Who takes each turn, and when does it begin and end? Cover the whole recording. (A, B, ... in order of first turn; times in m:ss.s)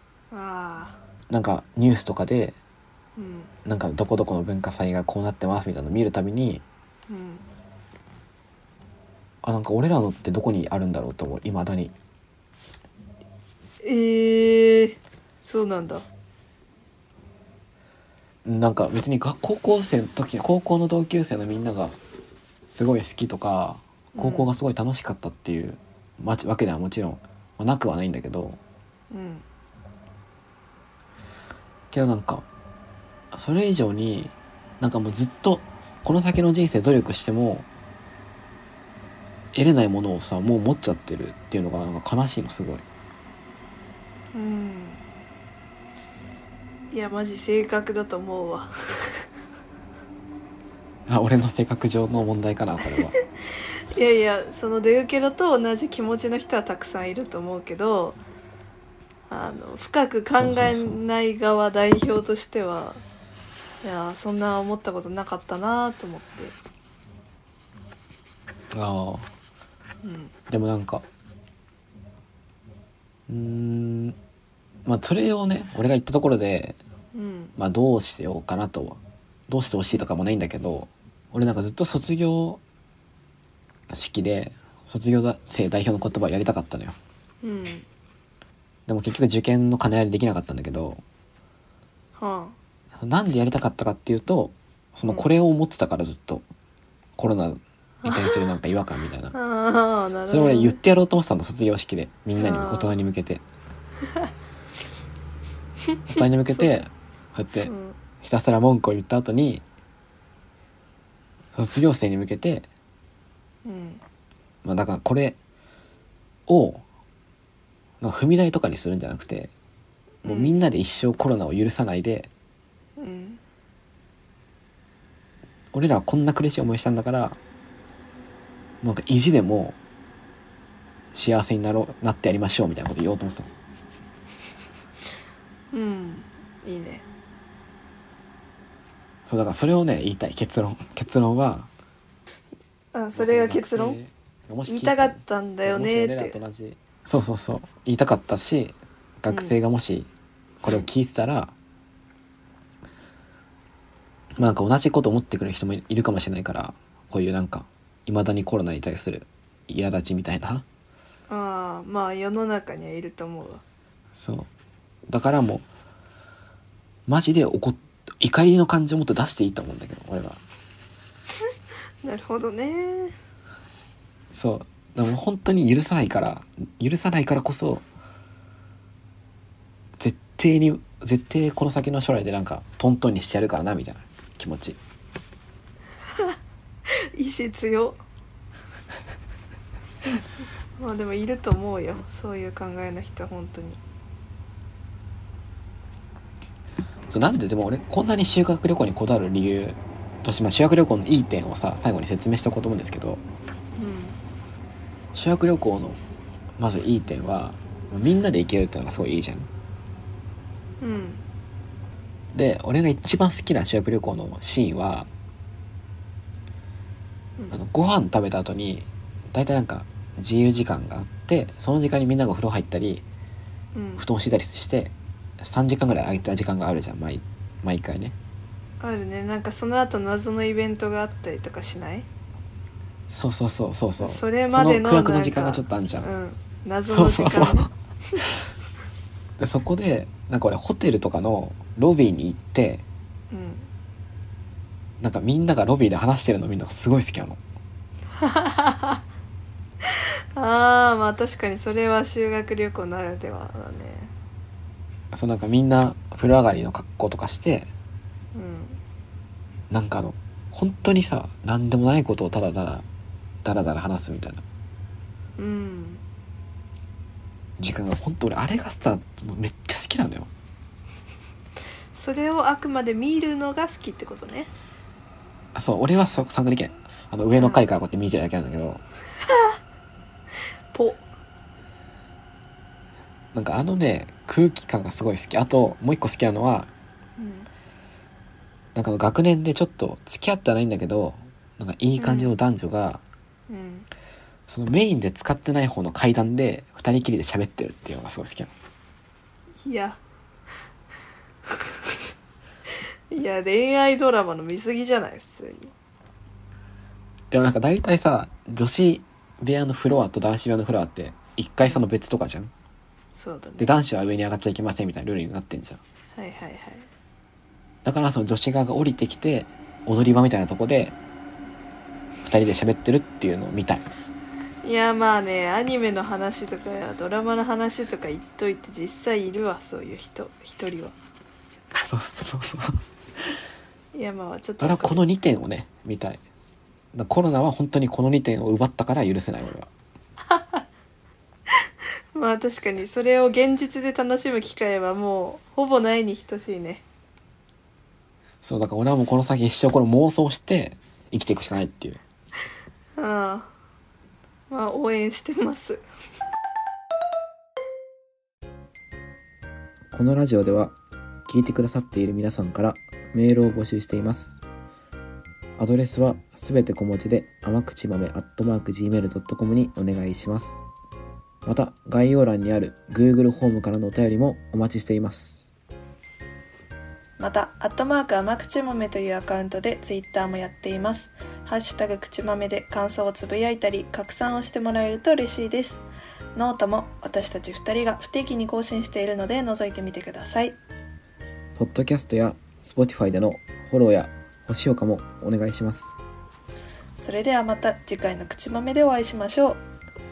0:00.3-0:01.0 A
0:01.3-0:02.6 B
0:03.2-0:03.5 A
0:03.6-0:06.6 B
0:07.1-0:07.4 A
0:09.4-0:11.9 B
0:13.8-0:16.0 A
0:18.4-0:22.0 B
0:22.7-0:28.6 B
0:24.2-0:24.5 A
0:29.1-0:29.4 A
0:31.9-0:32.5 B
0:33.3-0:37.7 B
0:39.5-0:42.8 B
0:44.3-0:45.0 A
0:46.9-0:49.3 A
0:51.1-0:53.2 B
0:53.9-0:58.2 A
0:59.3-1:03.0 A
1:00.3-1:01.0 B
1:03.8-1:06.6 A
1:08.7-1:09.3 B
1:10.0-1:10.3 A
1:10.5-1:11.0 B
1:13.3-1:14.2 B
1:14.9-1:16.8 B
1:17.1-1:17.6 A
1:17.6-1:22.6 B
1:23.9-1:27.0 B
1:27.4-1:27.9 A
1:28.9-1:31.0 B
1:32.2-1:32.6 A
1:33.0-1:36.4 B
1:37.2-1:39.4 B
1:38.0-1:38.5 A
1:39.3-1:40.8 A
1:40.3-1:43.4 B
1:42.4-1:43.0 A
1:46.1-1:49.6 B
1:47.7-1:48.0 A
1:51.6-1:52.7 B
1:53.6-1:54.0 A
1:54.6-1:55.4 B
1:56.5-1:56.8 B
1:58.0-1:59.5 B
2:00.2-2:00.6 A
2:00.2-2:02.3 B
2:03.0-2:03.4 A
2:05.7-2:07.4 B
2:08.8-2:09.8 B
2:11.1-2:13.5 B
2:15.7-2:17.0 A
2:19.3-2:21.7 B
2:22.9-2:24.0 A
2:23.2-2:30.1 B
2:24.7-2:26.4 A
2:29.3-2:29.6 A
2:30.6-2:31.5 B
2:34.4-2:40.6 B
2:41.3-2:43.6 A
2:44.2-2:44.5 B
2:45.1-2:45.7 B
2:47.1-2:50.4 B
2:52.0-2:53.1 A
2:54.3-2:57.8 B
3:00.0-3:04.8 B
3:07.2-3:08.0 A
3:10.8-3:13.8 A
3:17.1-3:23.2 B
3:23.8-3:24.2 A
3:25.1-3:26.0 B
3:26.6-3:29.5 B
3:30.8-3:31.2 A
3:32.3-3:35.1 B
3:37.5-3:43.0 B
3:43.8-3:44.0 A
3:44.0-3:48.2 B
3:48.8-3:52.1 A
3:53.1-3:56.1 B
3:54.0-3:58.2 A
3:56.9-3:57.7 B
3:59.4-4:02.8 B
4:03.3-4:03.7 A
4:05.0-4:07.4 B
4:08.2-4:09.0 A
4:10.4-4:14.1 A
4:15.1-4:17.7 B
4:18.4-4:18.8 A
4:19.7-4:22.9 B
4:23.4-4:24.4 B
4:25.4-4:26.0 A
4:27.6-4:30.3 B
4:31.9-4:34.5 A
4:35.6-4:38.8 B
4:37.4-4:37.6 A
4:40.7-4:41.0 A
4:43.3-4:46.7 B
4:47.2-4:47.5 A
4:48.8-4:53.0 B
4:52.0-4:52.3 A
4:53.5-4:53.9 A
4:54.5-4:58.5 B
4:59.6-5:00.0 A
5:01.5-5:02.0 A
5:03.1-5:05.7 A
5:07.3-5:12.5 B
5:13.2-5:13.8 A
5:13.6-5:15.8 B
5:16.2-5:16.9 A
5:17.8-5:21.0 B
5:22.2-5:23.9 B
5:24.6-5:31.0 A
5:31.8-5:32.8 B
5:33.9-5:35.0 A
5:34.6-5:36.2 B
5:36.9-5:39.7 B
5:40.4-5:40.6 A
5:42.1-5:46.8 A
5:48.4-5:52.0 B
5:53.0-5:53.5 A
5:54.5-5:55.8 A
5:59.9-6:00.7 B
6:01.3-6:04.4 B
6:05.6-6:10.6 B
6:11.5-6:15.5 B
6:17.2-6:25.8 A
6:26.4-6:30.6 A
6:31.6-6:36.0 B
6:37.0-6:39.6 A